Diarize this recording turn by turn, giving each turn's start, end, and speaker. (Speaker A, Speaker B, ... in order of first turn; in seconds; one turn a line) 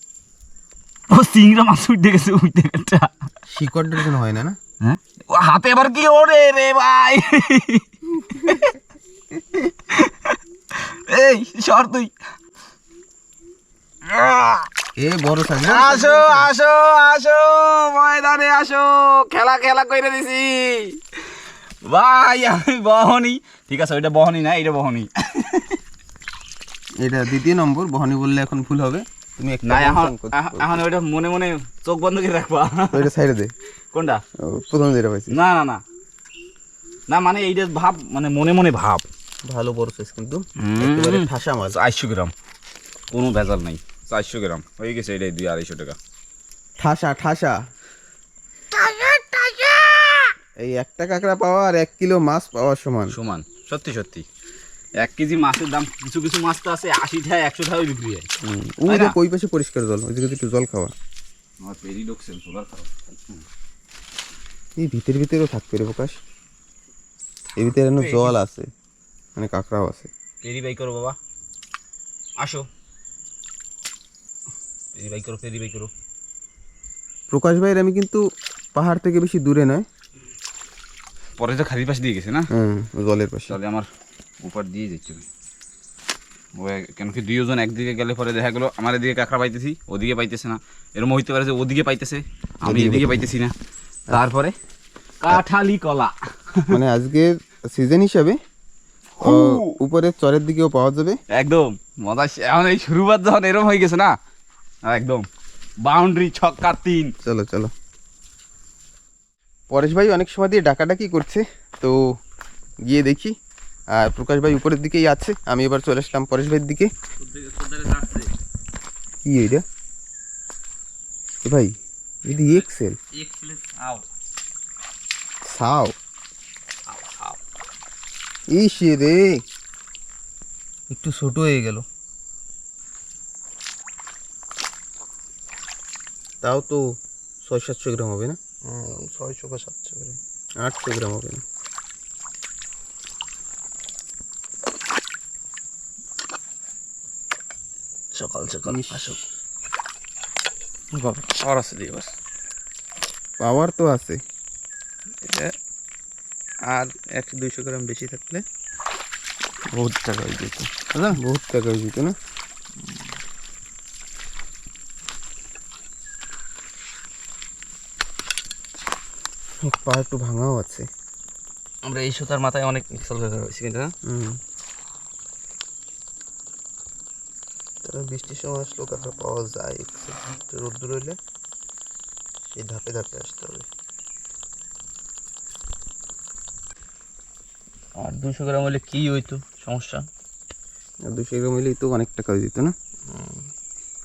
Speaker A: 1.1-3.3
Speaker B: 3.5-4.6
Speaker A: 4.8-8.7
Speaker A: 9.5-12.1
Speaker A: 14.1-14.7
Speaker B: 15.0-16.5
Speaker A: 15.6-25.8
Speaker B: 27.0-30.8
Speaker A: 29.6-33.1
Speaker B: 32.9-33.5
Speaker A: 33.9-34.2
Speaker B: 34.4-35.4
Speaker A: 35.3-35.8
Speaker A: 37.1-39.1
Speaker B: 39.5-41.8
Speaker A: 40.6-42.3
Speaker A: 43.1-46.0
Speaker B: 46.8-47.6
Speaker A: 48.7-50.3
Speaker B: 50.6-53.1
Speaker A: 53.1-54.2
Speaker A: 55.0-58.3
Speaker B: 58.4-60.9
Speaker A: 58.9-59.1
Speaker A: 61.6-63.4
Speaker B: 64.8-66.2
Speaker A: 67.5-68.3
Speaker B: 67.6-68.7
Speaker B: 69.3-70.1
Speaker A: 70.4-71.2
Speaker A: 72.4-72.7
Speaker A: 74.9-75.9
Speaker B: 77.3-78.2
Speaker B: 78.7-79.8
Speaker A: 81.4-82.5
Speaker B: 82.5-83.6
Speaker A: 83.5-83.9
Speaker A: 84.4-85.2
Speaker A: 86.5-93.5
Speaker B: 92.7-93.3
Speaker A: 94.1-94.5
Speaker A: 95.2-96.8
Speaker B: 96.7-98.4
Speaker A: 99.2-99.8
Speaker B: 99.2-101.2
Speaker A: 101.3-104.1
Speaker A: 104.8-105.2
Speaker A: 105.8-107.1
Speaker B: 107.2-107.7
Speaker B: 109.7-112.2
Speaker B: 112.8-113.3
Speaker B: 113.9-116.9
Speaker C: 117.2-118.3
Speaker B: 119.2-119.6
Speaker B: 121.4-123.0
Speaker C: 122.3-124.0
Speaker B: 125.4-125.9
Speaker C: 126.9-127.4
Speaker B: 128.5-129.4
Speaker B: 130.9-131.8
Speaker B: 136.4-136.8
Speaker B: 137.4-138.4
Speaker C: 138.6-140.2
Speaker B: 140.6-141.4
Speaker C: 148.1-149.2
Speaker B: 148.7-149.0
Speaker C: 150.9-152.1
Speaker B: 153.4-154.2
Speaker C: 155.2-155.5
Speaker C: 156.7-158.4
Speaker C: 159.7-161.2
Speaker B: 161.1-162.2
Speaker C: 162.8-163.1
Speaker B: 169.6-170.9
Speaker C: 171.8-173.9
Speaker B: 174.1-174.4
Speaker C: 177.8-181.2
Speaker C: 182.5-183.7
Speaker C: 187.9-190.1
Speaker B: 191.1-192.7
Speaker C: 193.1-193.5